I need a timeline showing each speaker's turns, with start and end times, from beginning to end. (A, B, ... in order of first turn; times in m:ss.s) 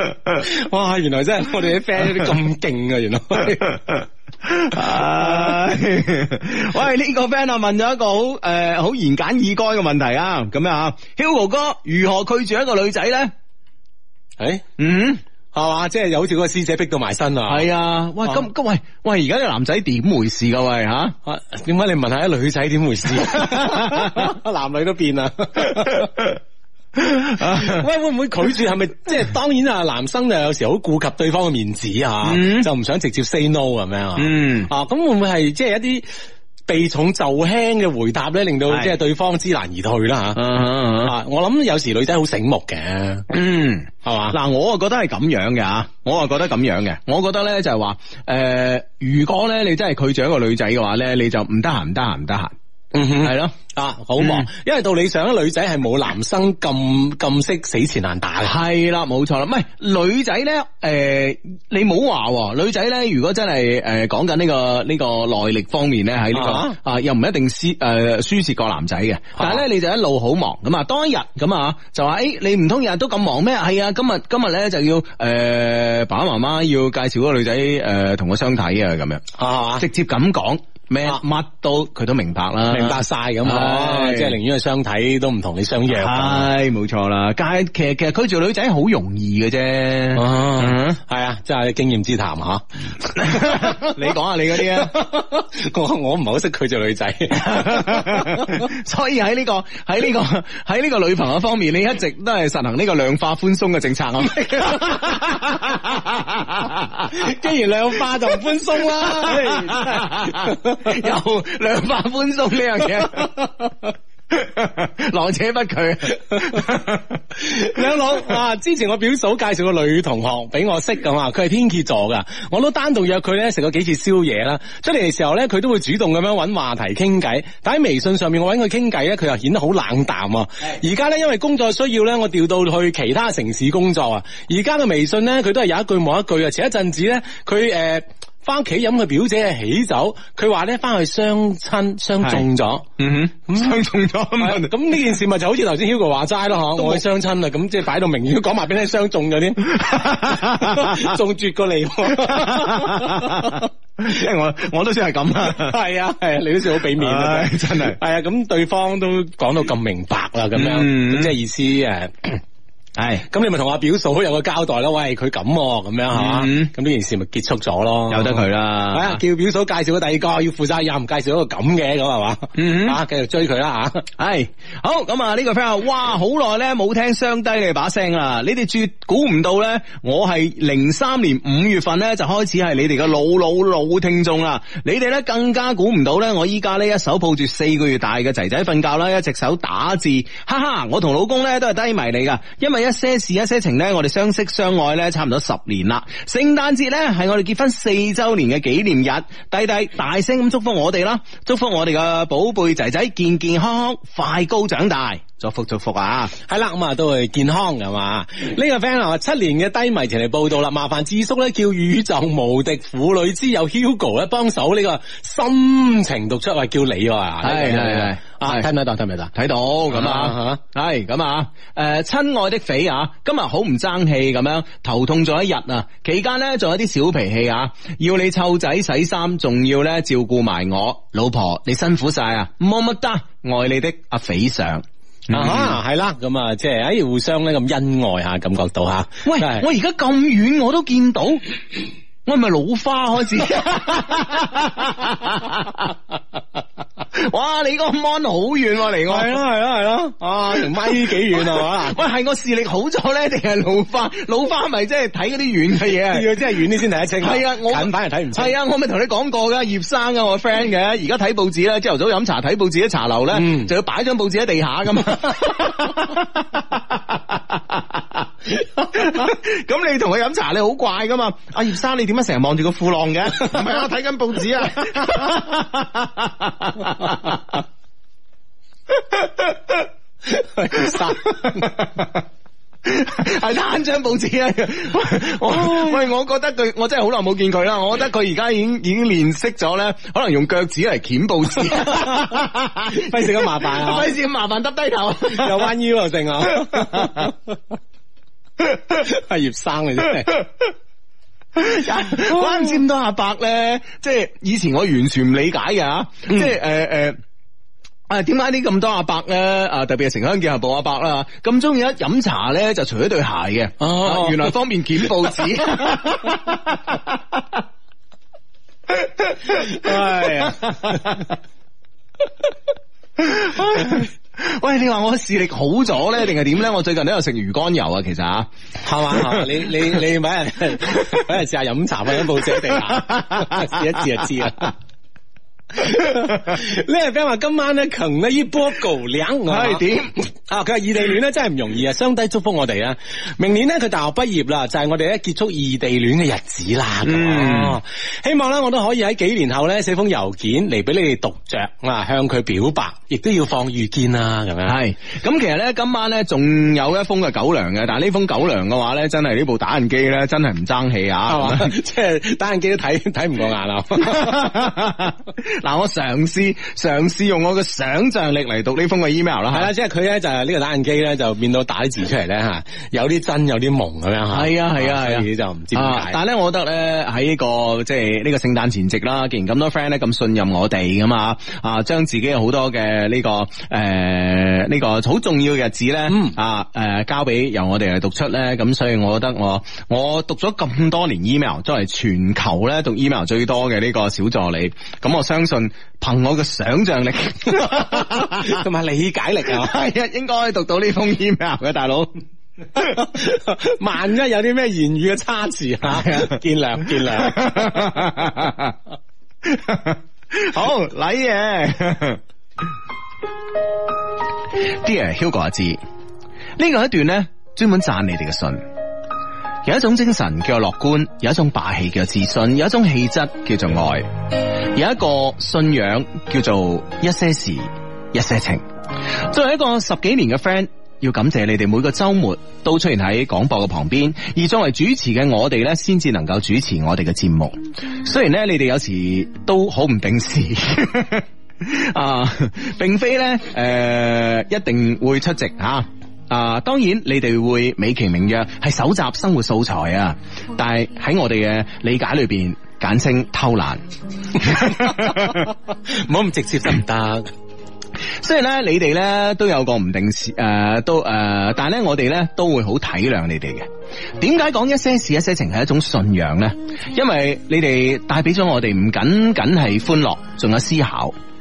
0:00.4-0:03.8 A
0:04.5-0:13.3 B
0:05.1-0:05.6 A
0:14.4-0:14.6 A
0:14.8-0:15.2 B
0:15.5-0:17.7 A
0:17.5-0:21.2 B
0:21.3-0:26.1 A
0:23.5-0:24.1 B
0:27.1-0:27.8 B
0:27.4-0:36.1 A
0:32.2-0:32.7 B
0:34.2-0:34.7 B
0:36.7-0:40.4 A
0:40.4-0:41.1 B
0:41.0-0:43.3 A
0:43.3-0:52.5 B
0:44.0-0:44.4 A
0:52.9-0:58.6 A
0:53.2-0:53.6 B
0:54.2-0:54.5 B
0:58.4-1:19.2 B
1:06.3-1:06.8 A
1:09.4-1:09.6 A
1:19.4-1:19.8 A
1:19.8-1:24.4 B
1:22.7-1:26.5 A
1:25.9-1:31.0 B
1:30.1-1:34.0 A
1:33.2-1:34.9 B
1:34.5-1:38.6 A
1:37.4-1:47.2 B
1:44.4-1:45.0 A
1:47.1-1:51.0 A
1:49.0-1:53.5 B
1:54.3-1:57.0 B
1:57.4-2:22.9 A
2:23.0-2:24.7 B
2:23.5-2:23.8 A
2:24.4-2:33.7 A
2:29.8-2:31.0 B
2:32.2-2:35.8 B
2:35.4-2:42.4 A
2:37.0-2:38.0 B
2:40.6-2:41.4 B
2:43.0-2:43.3 B
2:43.3-2:54.1 A
2:46.1-2:46.7 B
2:48.1-2:49.2 B
2:52.6-2:53.0 B
2:54.2-3:26.3 B
3:26.5-3:39.3 A
3:37.4-3:38.7 B
3:39.3-3:55.8 B
3:39.9-3:40.6 A
3:55.3-3:59.7 A
3:59.2-4:01.4 B
4:02.3-4:05.9 B
4:07.2-4:09.4 B
4:09.1-4:12.0 A
4:10.5-4:16.5 B
4:15.8-4:18.6 A
4:17.2-4:28.2 B
4:23.3-4:23.7 A
4:28.8-4:37.6 B
4:39.1-4:39.5 B
4:40.3-4:41.7 A
4:40.8-4:42.2 B
4:42.9-4:55.7 B
4:45.5-4:46.0 A
4:51.9-4:52.3 A
4:52.9-4:54.1 A
4:55.3-4:57.5 A
4:56.6-4:57.3 B
4:59.0-5:00.4 A
5:01.6-5:07.2 B
5:02.3-5:02.8 A
5:08.1-5:17.0 B
5:13.8-5:15.3 A
5:19.0-5:21.2 B
5:19.5-5:21.1 A
5:23.2-5:28.5 B
5:28.8-5:34.7 A
5:33.1-5:33.6 B
5:35.8-5:39.8 A
5:39.5-5:40.2 B
5:40.4-5:54.8 A
5:47.0-5:47.8 B
5:54.7-6:01.7 B
6:01.3-6:04.5 A
6:04.0-6:09.7 B
6:09.5-6:16.2 A
6:14.3-6:38.6 B
6:26.1-6:26.4 A
6:37.6-6:39.8 A
6:39.5-6:42.1 B
6:42.9-6:47.9 A
6:45.9-6:46.3 B
6:47.2-6:48.8 B
6:49.4-6:52.2 B
6:54.8-6:55.8 B
6:56.6-6:58.6 B
6:59.6-7:04.1 B
7:04.6-7:08.6 B
7:09.3-7:33.8 B
7:34.4-7:35.4 B
7:34.5-7:37.3 A
7:38.2-7:43.7 B
7:44.2-7:51.2 B